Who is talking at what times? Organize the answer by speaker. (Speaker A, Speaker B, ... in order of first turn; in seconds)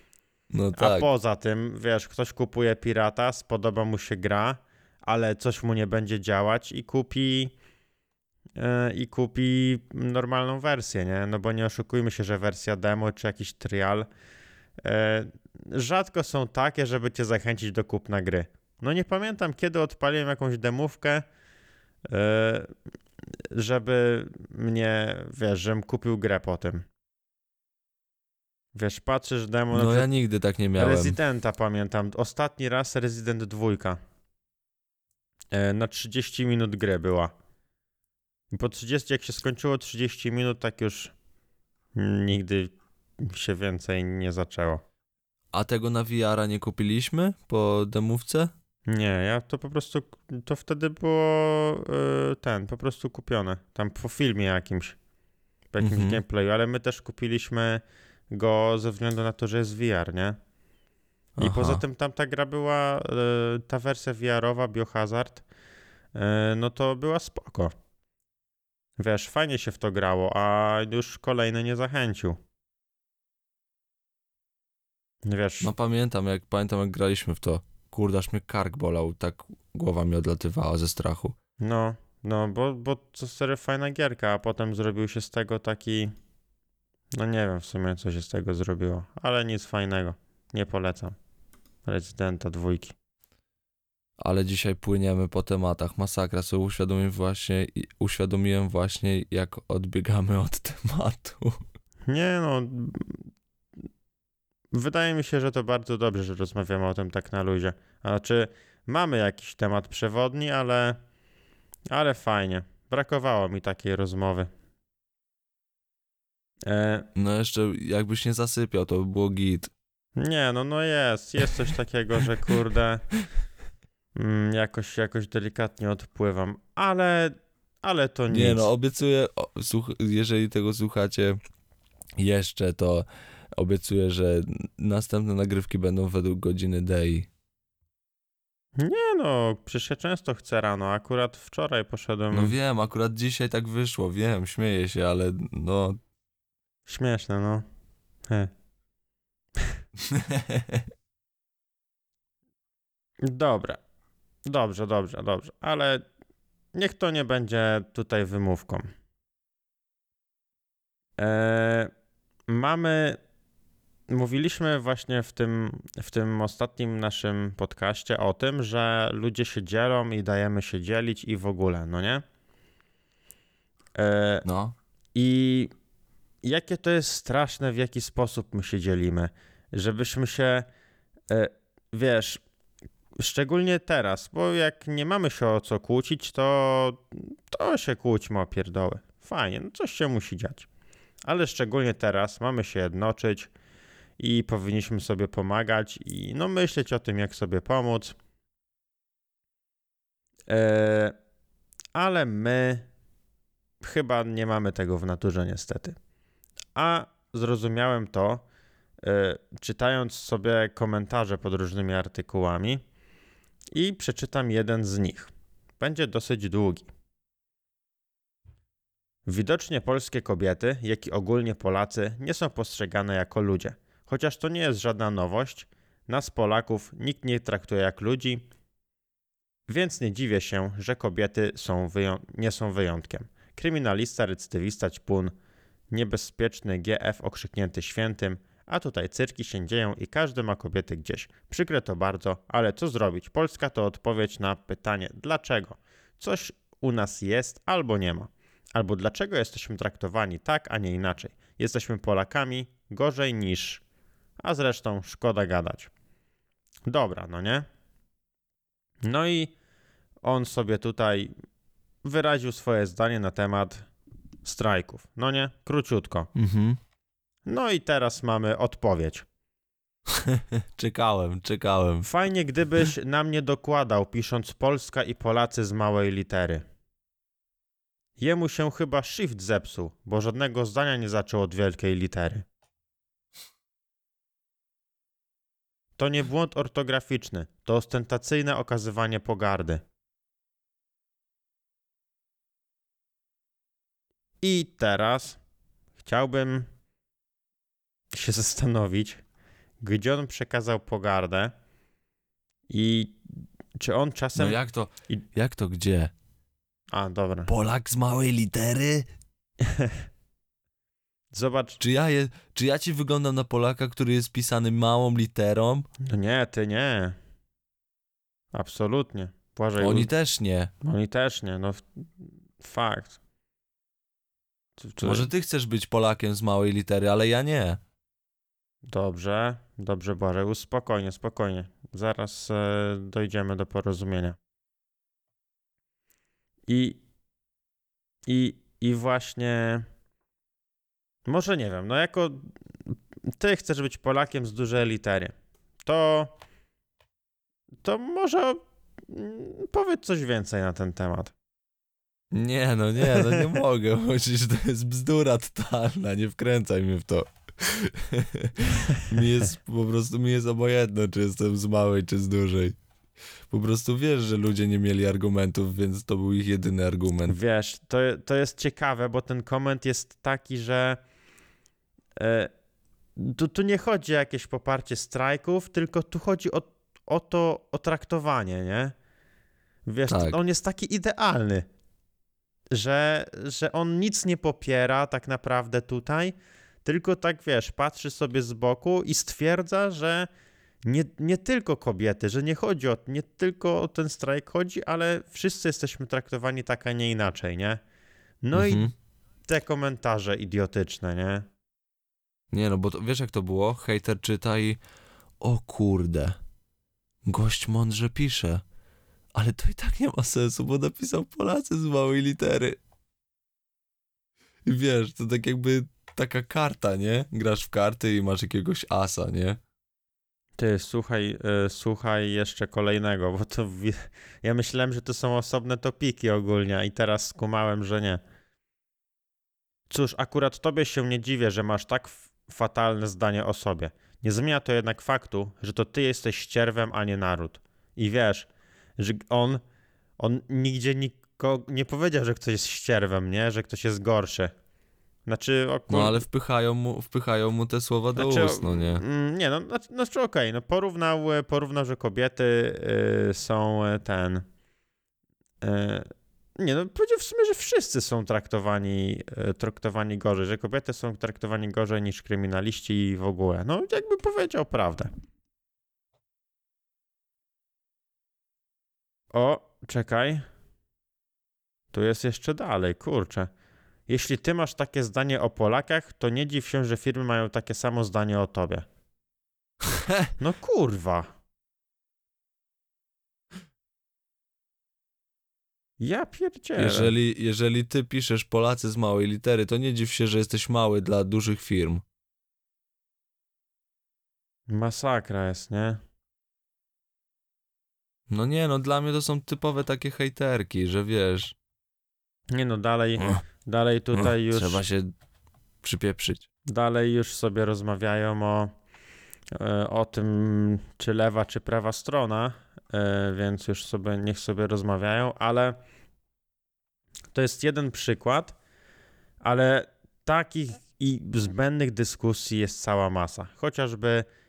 Speaker A: 0.5-1.1, 29.7-31.2, 45.5-48.5, 55.8-56.2, 61.4-61.8, 75.6-81.4, 94.2-101.6, 117.2-119.7, 128.3-131.4, 132.2-137.3, 142.3-146.0, 150.1-150.8, 174.4-174.8, 266.4-266.8, 270.1-272.1, 304.4-306.1, 307.5-309.1, 311.8-315.9, 319.8-320.7, 325.0-327.8, 352.3-362.8, 363.5-367.4, 380.1-380.4, 398.5-398.9, 402.5-404.8, 405.4-406.4, 407.3-408.6, 409.4-412.8, 414.7-419.6, 445.9-449.0, 479.9-480.3, 486.8-492.0, 498.3-501.5, 504.1-505.1, 505.8-506.5
Speaker B: 0.8-7.5, 8.6-14.1, 14.8-21.2, 22.1-22.7, 23.5-26.9, 28.7-30.1, 30.8-34.0, 35.5-37.3, 38.5-41.1, 42.0-44.8, 48.9-55.0, 55.7-60.4, 61.4-65.4, 66.1-67.7, 69.0-72.4, 75.2-75.7, 81.6-86.1, 87.1-91.2, 91.9-93.0, 102.1-103.2, 104.7-111.0, 111.9-114.5, 116.7-117.1, 120.2-123.1, 124.2-128.7, 138.8-142.6, 146.9-147.7, 153.2-153.8, 154.5-156.0, 156.7-158.9, 161.2-161.9, 162.5-163.2, 164.1-172.2, 174.0-174.4, 175.2-175.7, 176.4-180.7, 181.3-182.4, 183.2-190.7, 191.3-193.5, 194.2-198.2, 200.5-201.2, 201.9-202.9, 203.8-206.0, 206.8-208.4, 209.0-212.8, 213.7-216.9, 219.3-228.4, 229.7-235.3, 235.9-253.8, 254.4-255.9, 256.9-257.6, 259.0-259.5, 260.2-261.3, 262.0-263.9, 264.4-266.3, 267.5-269.3, 272.1-276.7, 278.2-282.4, 286.0-289.8, 294.4-295.4, 296.0-296.7, 298.1-299.2, 299.8-301.5, 302.7-303.2, 303.8-304.6, 306.9-307.5, 309.6-310.0, 311.3-311.8, 316.0-317.1, 318.5-320.1, 320.8-321.9, 322.6-323.2, 324.8-325.3, 328.9-334.4, 336.7-337.0, 338.3-339.9, 341.3-342.5, 343.4-346.3, 347.8-351.3, 353.1-353.4, 367.3-371.0, 372.2-372.5, 373.2-378.9, 379.9-381.7, 382.7-390.3, 390.9-397.8, 398.4-398.9, 399.5-401.5, 420.6-428.2, 429.9-439.6, 440.2-444.5, 445.3-446.2, 448.2-454.4, 455.6-465.1, 469.3-470.5, 471.9-473.5, 474.1-478.9, 480.4-481.3, 486.0-487.1, 494.7-496.0, 502.5-504.8, 506.7-508.7, 509.6-515.8, 517.3-518.6, 519.4-524.3